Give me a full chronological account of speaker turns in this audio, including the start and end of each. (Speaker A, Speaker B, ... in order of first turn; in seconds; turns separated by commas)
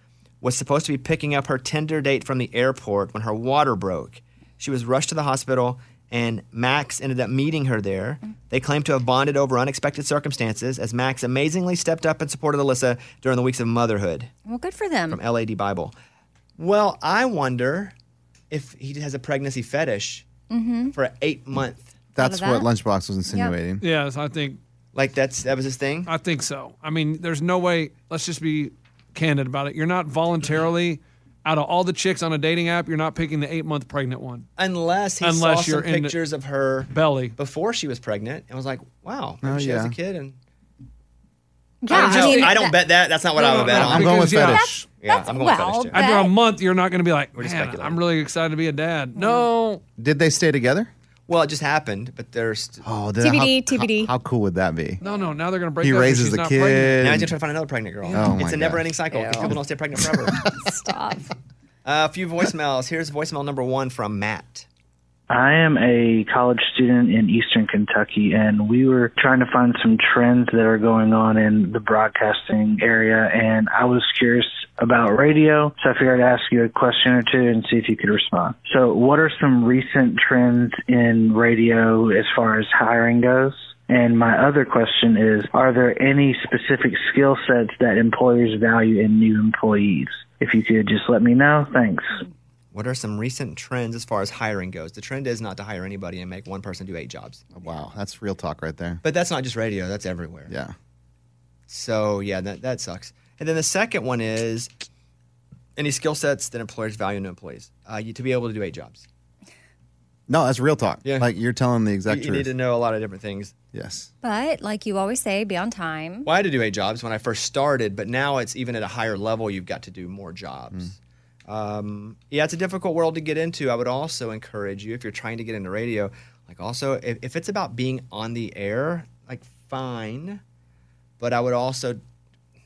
Speaker A: 0.4-14.3, Speaker B: 14.4-15.2, Speaker A: 15.1-15.9, Speaker A: 16.6-17.9, Speaker A: 18.5-20.3, Speaker B: 20.5-20.9, Speaker A: 20.9-21.9, Speaker C: 22.1-23.8, Speaker B: 22.2-22.7, Speaker D: 23.8-24.6, Speaker A: 24.9-26.1, Speaker D: 26.1-34.5, Speaker A: 34.6-40.4, Speaker D: 35.2-36.2, Speaker D: 36.9-37.3, Speaker C: 39.4-39.9, Speaker B: 41.8-42.8, Speaker A: 41.9-44.3, Speaker D: 41.9-42.6, Speaker D: 43.4-44.7, Speaker B: 43.6-46.4, Speaker C: 43.7-44.8, Speaker A: 45.0-46.0, Speaker D: 45.9-49.8, Speaker A: 47.3-48.0, Speaker B: 49.1-49.5, Speaker C: 50.0-50.9, Speaker A: 51.3-52.8, Speaker C: 52.8-55.0, Speaker B: 53.2-54.1, Speaker D: 55.0-57.0, Speaker B: 55.0-55.3, Speaker C: 55.8-57.3, Speaker A: 57.0-60.4, Speaker C: 58.1-58.9, Speaker B: 59.1-59.6, Speaker C: 60.3-60.5, Speaker B: 60.4-61.3, Speaker A: 61.8-64.7, Speaker E: 65.3-92.2, Speaker A: 92.7-97.4, Speaker C: 97.5-99.0, Speaker A: 99.0-100.5, Speaker C: 100.5-100.7, Speaker A: 101.7-104.7, Speaker A: 105.8-109.0, Speaker C: 110.3-112.5, Speaker A: 111.0-111.3, Speaker A: 112.1-113.5, Speaker C: 113.7-114.1, Speaker B: 114.2-116.3, Speaker A: 116.2-120.9, Speaker A: 121.5-130.4, Speaker A: 131.2-132.0